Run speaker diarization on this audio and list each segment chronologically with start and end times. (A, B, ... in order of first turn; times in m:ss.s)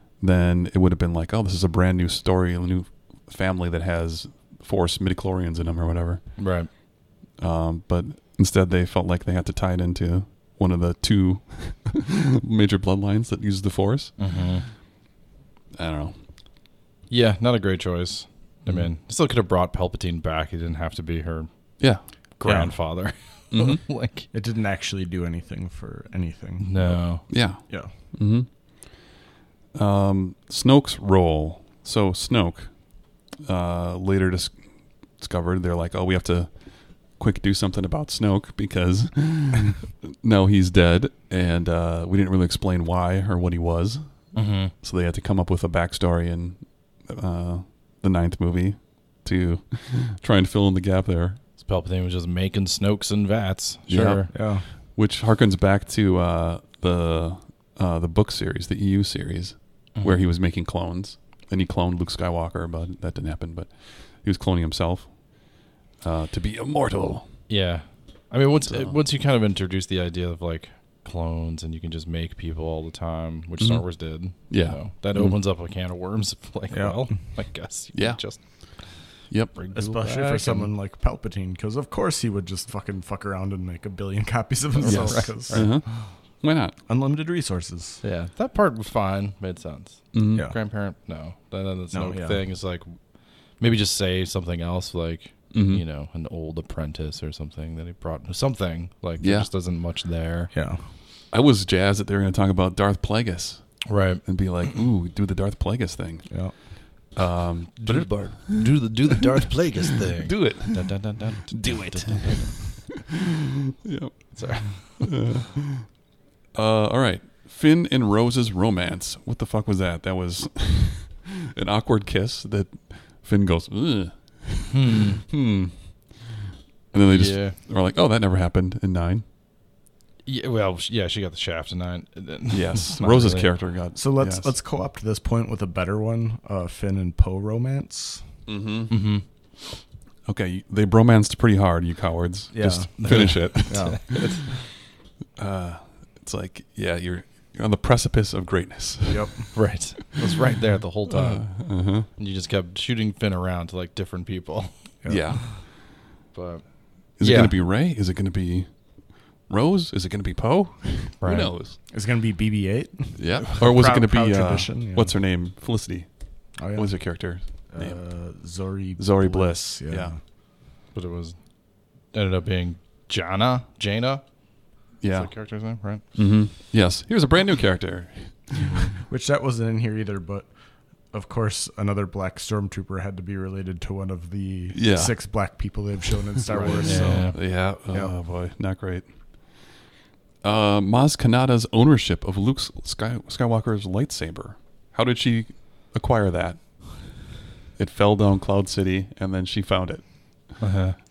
0:00.2-0:06.3 A
0:06.4-0:06.7 B
0:07.4-0:14.3 A
0:14.2-0:14.6 B
0:15.7-0:16.2 A
0:17.1-0:21.5 B
0:22.4-0:24.3 B
0:22.4-0:22.7 C
0:23.5-0:23.8 A
0:24.3-0:27.9 C
0:26.6-0:27.2 B
0:27.3-0:28.5 A
0:29.7-0:51.4 A
0:44.3-0:44.7 B
0:51.6-0:54.3 B
0:53.9-1:07.4 A
0:54.3-0:54.6 C
0:59.9-1:00.2 B
1:07.5-1:20.7 B
1:08.7-1:09.0 A
1:13.6-1:15.4 A
1:16.7-1:17.2 C
1:17.9-1:19.5 A
1:19.7-1:25.8 C
1:24.7-1:26.1 B
1:24.8-1:26.7 A
1:26.9-1:28.0 C
1:28.0-1:40.5 B
1:30.1-1:30.5 A
1:31.9-1:32.4 C
1:35.5-1:35.8 A
1:39.2-1:39.5 A
1:40.5-1:40.8 C
1:41.3-1:48.9 A
1:43.9-1:44.4 B
1:46.3-1:46.5 C
1:47.8-1:52.9 B
1:50.2-1:53.0 A
1:53.8-1:56.0 A
1:54.3-1:55.2 B
1:56.5-2:06.3 A
2:04.7-2:05.2 B
2:06.9-2:09.2 A
2:07.0-2:07.6 B
2:10.2-2:13.5 B
2:12.5-2:14.5 A
2:13.9-2:18.3 C
2:18.4-2:19.0 A
2:18.9-2:19.2 B
2:20.2-2:24.2 A
2:22.5-2:24.5 C
2:23.0-2:24.6 B
2:25.4-2:29.5 A
2:29.1-2:29.6 C
2:29.5-2:35.0 B
2:31.1-2:32.1 A
2:35.0-2:35.4 C
2:35.0-2:35.5 A
2:36.3-2:37.5 B
2:37.2-2:41.8 A
2:41.2-2:41.5 B
2:41.9-2:45.2 C
2:43.2-2:48.0 A
2:46.6-2:50.2 C
2:49.0-2:50.1 A
2:50.9-2:51.4 B
2:52.1-2:54.2 B
2:55.0-2:55.4 A
2:55.1-2:56.0 B
2:56.1-2:58.8 A
2:58.6-2:58.9 B
2:59.0-3:00.5 C
3:01.1-3:08.1 C
3:04.7-3:05.2 A
3:06.5-3:09.1 A
3:06.5-3:07.4 B
3:10.4-3:17.2 A
3:17.8-3:20.6 A
3:20.6-3:21.0 B